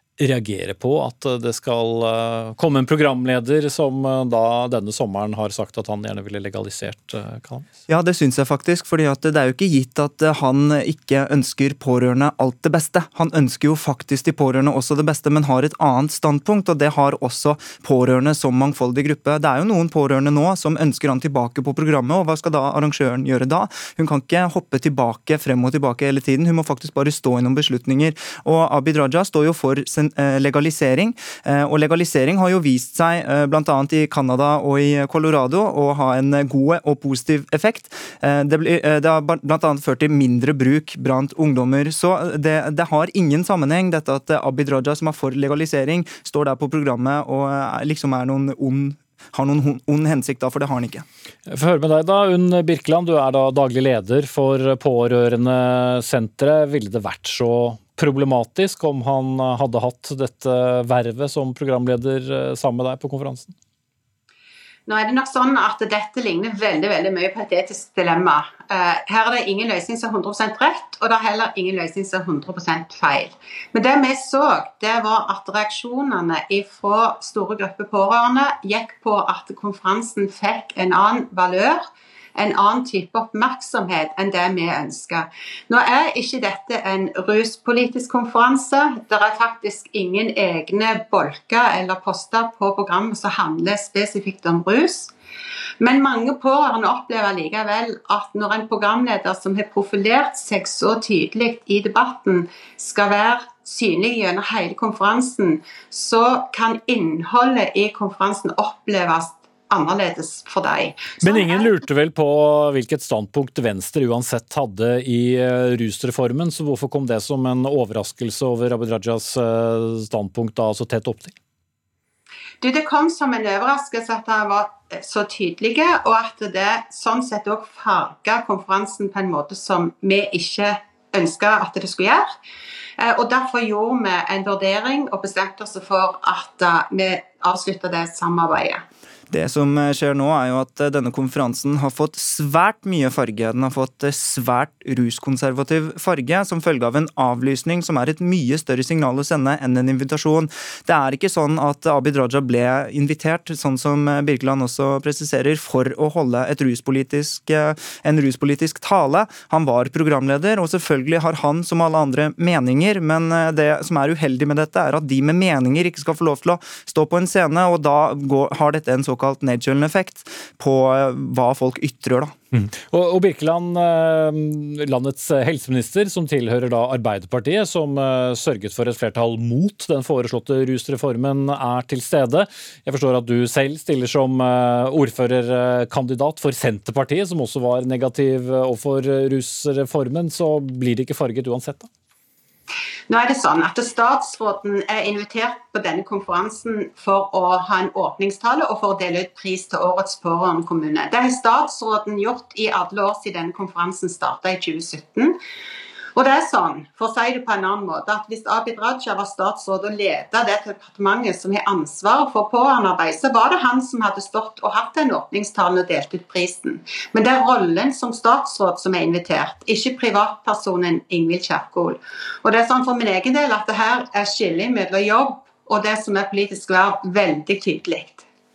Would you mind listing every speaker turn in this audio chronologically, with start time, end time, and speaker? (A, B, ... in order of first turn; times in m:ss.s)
0:00.2-0:07.6 A
0:07.9-0:51.0 B
0:51.5-1:03.5 A
1:04.9-1:35.1 C
1:35.8-1:51.7 C
1:51.2-2:01.3 A
2:02.6-2:12.3 C
2:13.0-2:18.8 C
2:19.3-2:52.3 B
2:52.5-3:11.9 A
3:13.1-3:25.4 C
3:26.2-3:48.2 C